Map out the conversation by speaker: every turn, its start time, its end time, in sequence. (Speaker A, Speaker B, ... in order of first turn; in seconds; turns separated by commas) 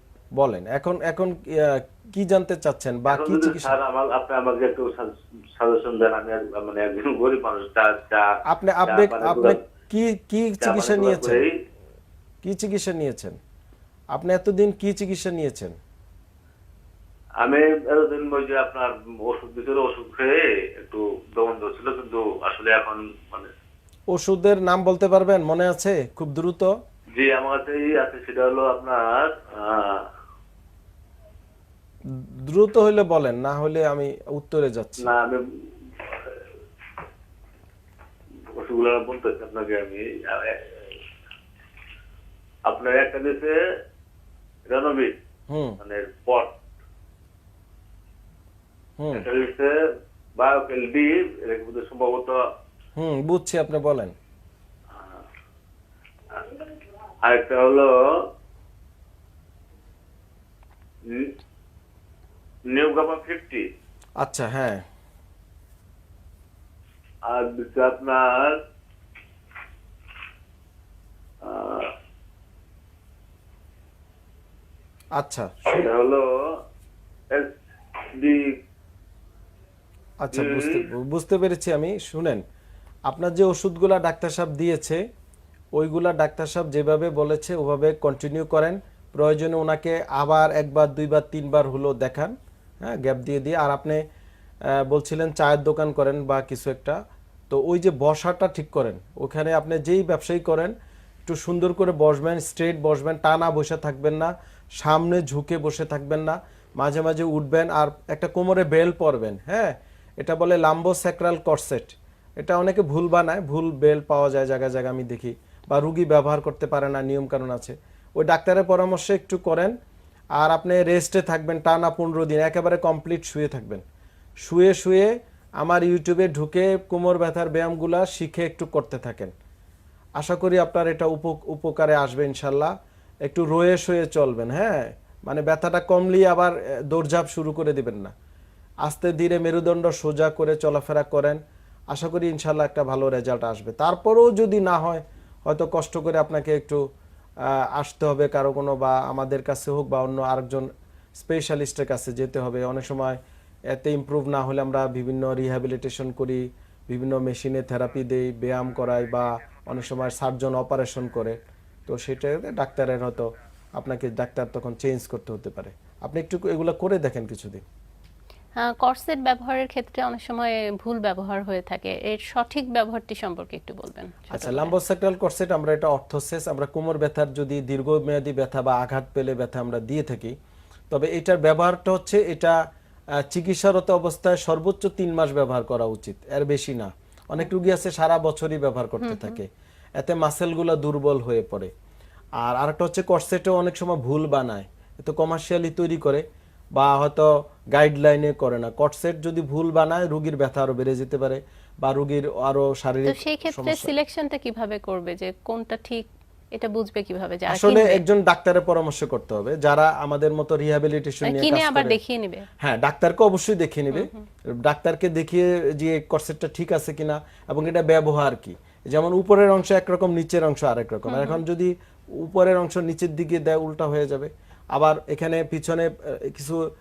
Speaker A: 0.4-3.7, Speaker B: 3.1-8.3, Speaker A: 8.4-11.4, Speaker B: 8.8-9.6, Speaker B: 10.6-11.5, Speaker A: 12.4-13.3, Speaker A: 14.1-15.7, Speaker B: 17.4-23.5, Speaker A: 24.1-26.7, Speaker B: 27.1-30.0, Speaker A: 32.1-35.1, Speaker B: 35.0-35.4, Speaker B: 36.0-36.4, Speaker B: 38.5-41.0, Speaker B: 42.6-43.6, Speaker B: 44.7-45.1, Speaker A: 45.5-45.8, Speaker B: 45.8-46.5, Speaker A: 49.0-49.2, Speaker B: 49.1-49.7, Speaker B: 50.4-52.4, Speaker A: 53.0-54.1, Speaker B: 54.9-55.2, Speaker B: 56.3-56.6, Speaker B: 57.2-58.1, Speaker B: 61.0-61.3, Speaker B: 62.7-63.6, Speaker A: 64.2-64.8, Speaker B: 67.2-68.6, Speaker B: 71.4-71.9, Speaker A: 75.2-75.9, Speaker B: 75.7-76.3, Speaker B: 77.3-77.6, Speaker B: 78.1-78.5, Speaker A: 80.2-82.4, Speaker B: 80.3-80.8, Speaker A: 83.1-85.0, Speaker A: 85.7-94.0, Speaker A: 94.7-97.0, Speaker A: 97.5-100.7, Speaker A: 101.2-119.7, Speaker A: 120.4-123.8, Speaker A: 124.4-129.3, Speaker A: 130.2-132.7, Speaker A: 133.2-138.1, Speaker A: 138.8-141.4, Speaker A: 141.9-146.8, Speaker A: 147.4-153.2, Speaker A: 153.7-167.6, Speaker C: 168.6-174.7, Speaker A: 174.3-180.3, Speaker A: 180.9-182.6, Speaker A: 183.2-191.7, Speaker C: 189.0-189.4, Speaker A: 192.4-196.2, Speaker A: 196.7-203.9, Speaker C: 203.1-208.0, Speaker A: 207.5-212.0, Speaker C: 211.2-212.5, Speaker A: 212.6-226.7, Speaker C: 221.1-221.4